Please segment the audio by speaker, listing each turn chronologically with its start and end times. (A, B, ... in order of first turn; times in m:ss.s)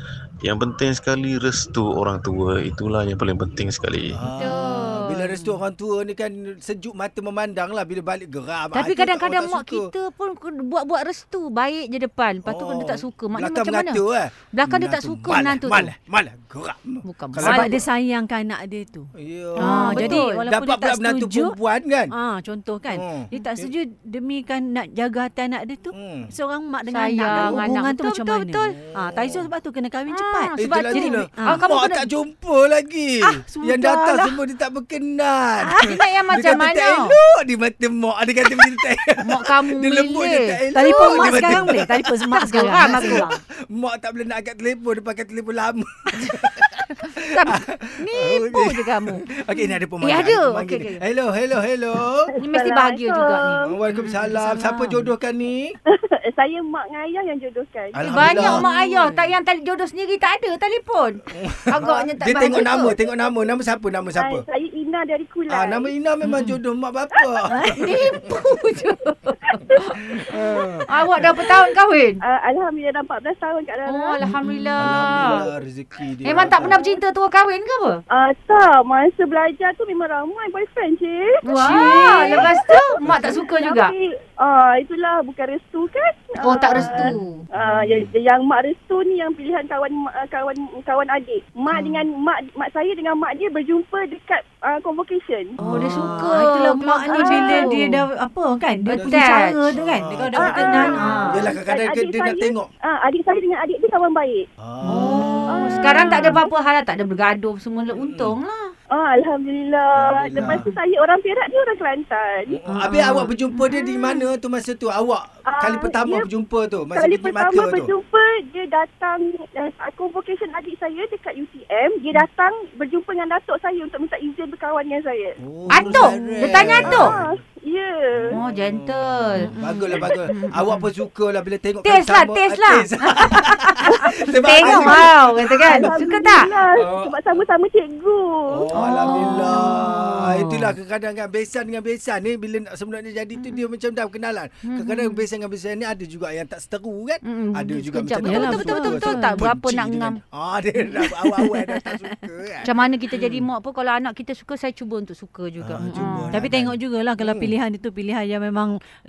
0:00.4-0:04.2 A
0:04.1-0:09.9 B
0:04.4-0:05.6 C
0:08.7-0:15.9 C
0:12.4-0:17.9 B
0:17.0-0:17.8 C
0:17.4-0:21.6 D
0:19.2-0:22.1 B
0:19.6-0:20.4 C
0:22.1-0:31.6 D
0:22.9-0:23.7 B
0:25.9-0:26.3 B
0:26.9-0:28.8 C
0:27.3-0:27.8 B
0:28.7-0:29.5 B
0:30.1-0:32.1 C
0:30.6-0:42.0 B
0:33.2-0:34.4 D
0:35.7-0:37.2 C
0:39.2-0:43.4 C
0:40.7-0:43.4 D
0:42.8-0:52.3 B
0:47.3-0:51.0 C
0:52.3-0:53.7 E
0:52.4-0:54.4 C
0:53.6-0:55.8 B
0:54.4-0:55.1 D
0:56.0-0:58.0 E
0:57.9-0:59.3 B
0:58.0-1:03.0 C
0:58.2-0:58.9 D
1:01.4-1:04.4 B
1:01.8-1:02.1 E
1:04.2-1:05.9 E
1:05.5-1:08.3 B
1:06.2-1:06.6 C
1:07.7-1:10.2 C
1:10.0-1:11.3 B
1:10.3-1:10.7 E
1:10.9-1:12.2 C
1:12.2-1:14.2 E
1:13.9-1:15.5 C
1:14.3-1:14.7 D
1:14.8-1:16.8 B
1:15.1-1:15.5 E
1:16.2-1:18.0 C
1:18.1-1:35.6 E
1:21.4-1:23.9 C
1:21.6-1:21.9 D
1:23.0-1:23.3 B
1:26.4-1:27.4 C
1:31.7-1:32.0 C
1:35.6-1:41.5 D
1:35.6-1:38.0 C
1:37.2-1:37.6 E
1:38.9-1:39.8 C
1:38.9-1:42.7 B
1:40.3-1:44.4 E
1:40.8-1:41.4 C
1:44.6-1:45.7 B
1:44.8-1:48.7 C
1:45.5-1:46.5 E
1:47.9-1:48.4 B
1:48.9-1:52.6 E
1:50.0-1:50.7 B
1:50.4-1:50.6 C
1:52.5-1:57.9 B
1:52.7-1:53.2 D
1:52.8-1:53.2 C
1:55.5-1:56.3 E
1:57.0-2:05.4 E
2:05.4-2:07.4 B
2:05.7-2:07.1 C
2:06.4-2:08.4 E
2:08.1-2:08.8 B
2:08.3-2:10.9 C
2:09.4-2:10.1 D
2:09.5-2:16.0 B
2:11.8-2:16.5 C
2:14.3-2:18.5 E
2:16.7-2:17.2 B
2:18.5-2:33.3 B
2:18.7-2:19.9 C
2:19.1-2:20.7 D
2:23.4-2:23.6 C
2:24.6-2:25.3 C
2:27.2-2:30.2 C
2:28.2-2:29.5 D
2:31.0-2:31.6 C
2:32.6-2:36.5 C
2:35.6-2:37.5 B
2:35.8-2:38.8 D